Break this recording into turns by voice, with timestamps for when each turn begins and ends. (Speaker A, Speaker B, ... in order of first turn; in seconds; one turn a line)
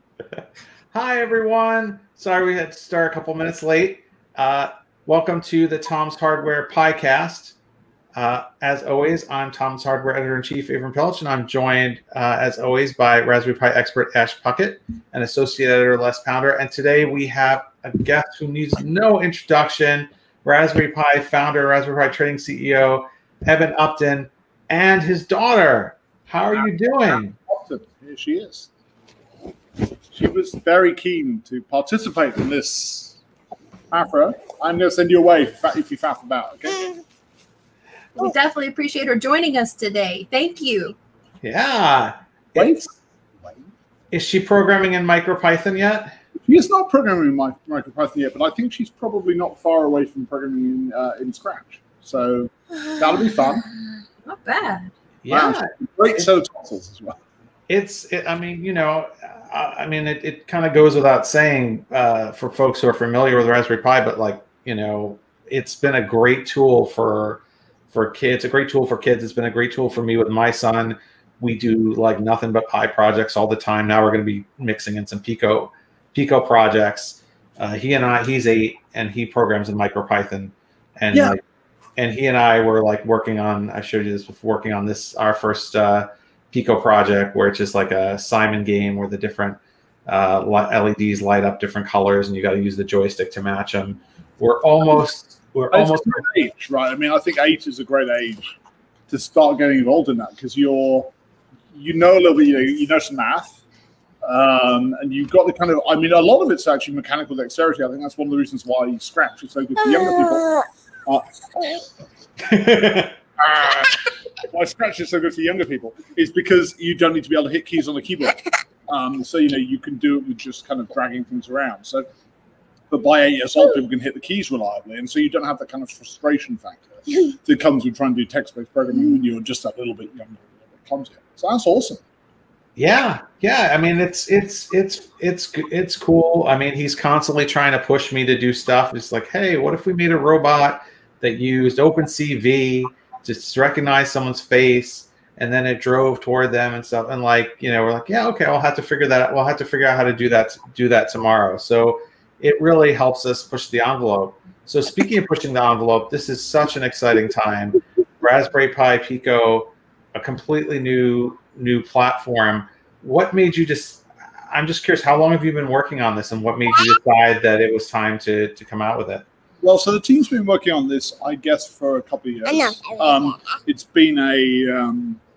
Speaker A: 0.3-7.5
Speaker A: 8.1-27.3
Speaker B: 26.6-28.7
Speaker B: 30.1-33.2
Speaker B: 33.9-37.0
Speaker C: 38.1-41.0
Speaker A: 41.4-42.8
Speaker B: 42.5-42.9
Speaker A: 44.1-46.1
Speaker B: 46.4-53.7
Speaker C: 54.2-54.9
Speaker A: 55.2-55.7
Speaker B: 55.3-57.2
Speaker A: 57.7-67.4
Speaker A: 67.9-81.4
Speaker A: 82.0-96.2
Speaker B: 95.7-98.4
Speaker B: 99.1-101.1
Speaker B: 101.7-103.6
Speaker B: 104.2-111.8
Speaker A: 112.5-113.1
Speaker B: 113.4-122.1
Speaker B: 122.9-132.0
Speaker A: 132.8-169.2
Speaker B: 169.6-175.2